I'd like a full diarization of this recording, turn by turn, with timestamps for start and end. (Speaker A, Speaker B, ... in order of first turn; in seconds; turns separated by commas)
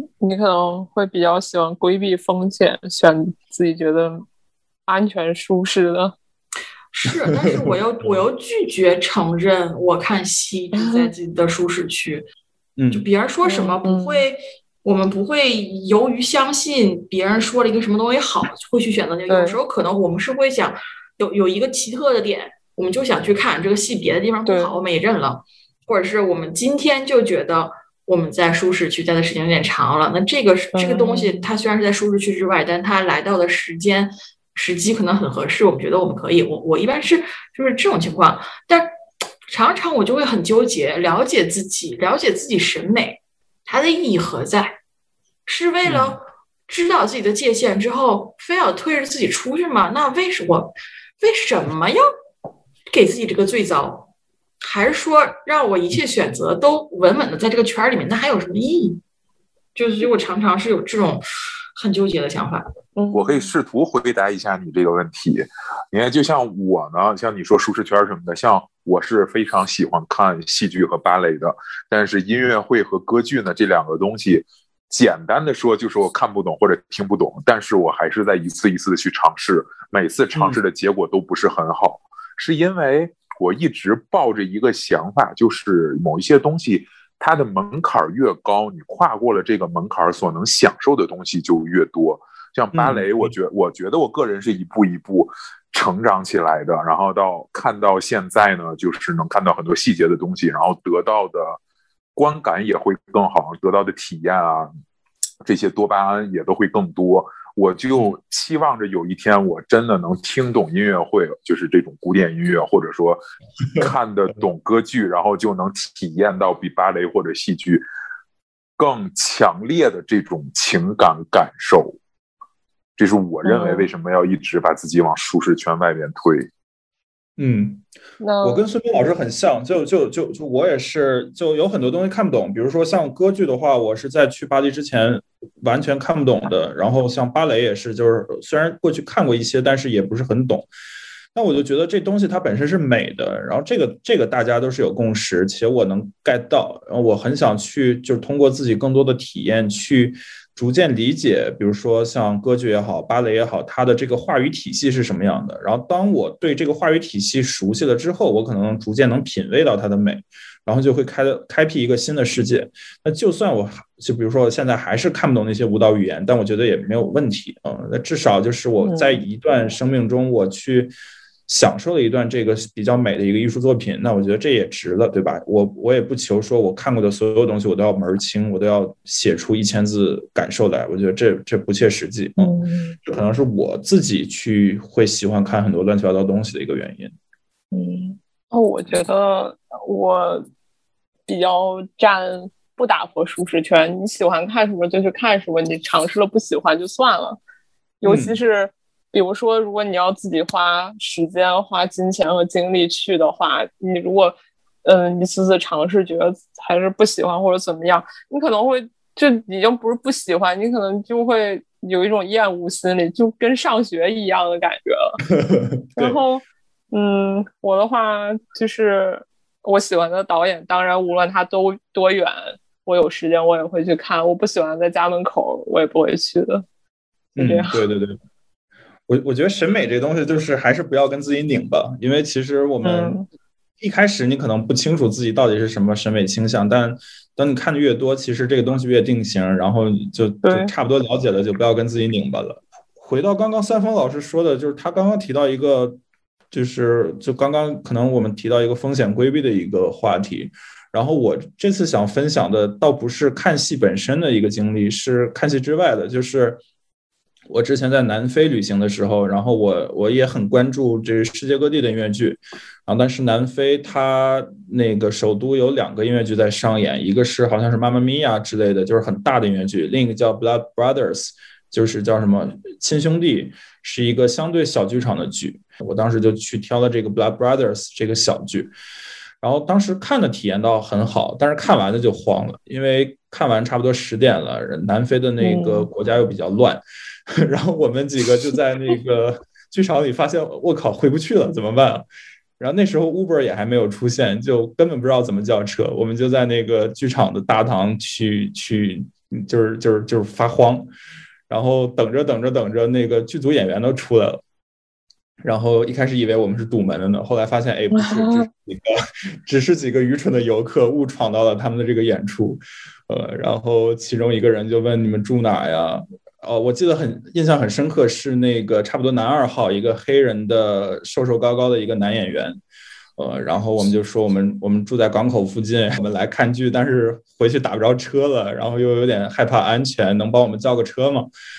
Speaker A: 0.2-4.2, Speaker A: 4.9-6.2, Speaker B: 6.9-12.2, Speaker C: 7.4-8.2, Speaker A: 10.8-11.1, Speaker C: 12.8-13.1, Speaker B: 12.9-38.9, Speaker A: 13.4-14.2, Speaker A: 19.3-19.6, Speaker A: 24.4-24.7, Speaker A: 30.7-31.5, Speaker B: 39.5-44.8, Speaker B: 45.5-52.0, Speaker C: 45.8-46.2, Speaker B: 52.9-54.1, Speaker B: 54.6-59.0, Speaker B: 59.7-61.2, Speaker B: 61.7-62.7, Speaker A: 63.0-63.5, Speaker D: 63.1-101.6, Speaker C: 80.3-80.6, Speaker C: 92.7-93.3, Speaker D: 102.2-104.7, Speaker D: 105.4-113.2, Speaker D: 113.8-117.8, Speaker D: 118.8-122.0, Speaker D: 123.0-126.5, Speaker A: 123.4-123.9, Speaker C: 127.4-127.8, Speaker A: 128.2-128.6, Speaker C: 128.4-140.7, Speaker C: 141.3-170.9, Speaker A: 168.8-169.2, Speaker C: 171.5-182.5, Speaker A: 182.4-183.0, Speaker C: 183.0-187.1, Speaker A: 187.7-190.5, Speaker A: 191.3-197.4, Speaker A: 198.0-215.2, Speaker C: 198.0-198.4, Speaker C: 215.3-216.2, Speaker A: 215.9-226.7, Speaker C: 227.3-228.2, Speaker A: 227.4-227.8, Speaker C: 229.1-233.2, Speaker A: 232.8-233.2, Speaker C: 233.8-246.0, Speaker A: 240.4-240.7, Speaker C: 246.5-256.6, Speaker C: 257.5-278.7, Speaker C: 279.4-292.1, Speaker A: 285.4-285.9, Speaker C: 292.6-300.9, Speaker C: 301.5-304.4, Speaker C: 305.4-308.9, Speaker A: 307.9-308.5, Speaker C: 309.4-322.6, Speaker C: 323.2-331.3